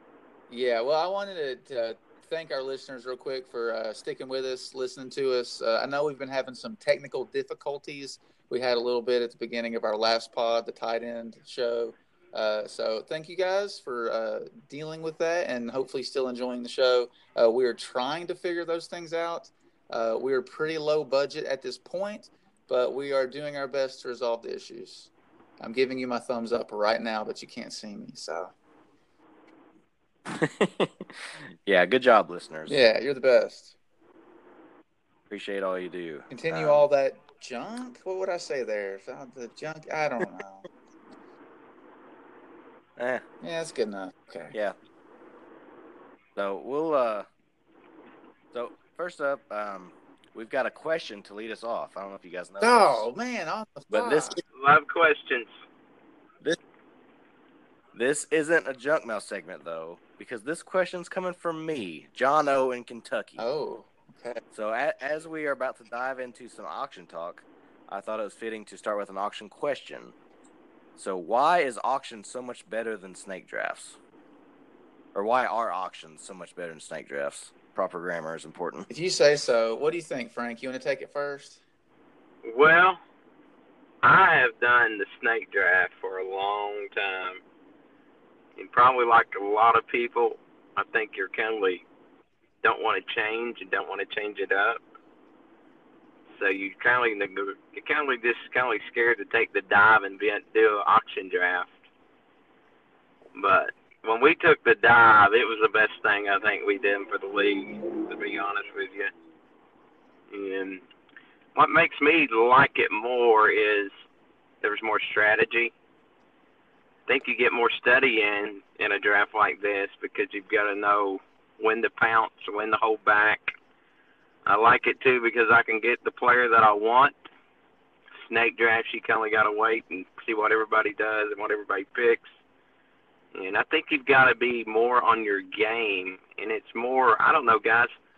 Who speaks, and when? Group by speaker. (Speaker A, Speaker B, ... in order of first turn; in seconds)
Speaker A: 0.5-28.5, 32.7-33.7, 36.3-40.6, 43.4-44.5, 52.6-54.4, 63.4-64.4, 78.9-81.6
Speaker B: 30.3-32.8, 35.3-36.9, 43.0-43.2, 46.4-47.3, 48.5-53.0, 53.9-54.4, 57.9-63.5, 64.5-70.1, 71.0-74.0, 75.1-78.9
Speaker C: 54.5-55.5, 82.4-83.0, 84.0-87.4, 88.5-91.8, 92.6-94.8, 96.4-101.7, 103.3-109.1, 110.3-110.8, 111.5-113.9, 114.6-115.7, 117.1-123.5, 124.5-127.1, 128.2-132.2, 133.3-137.9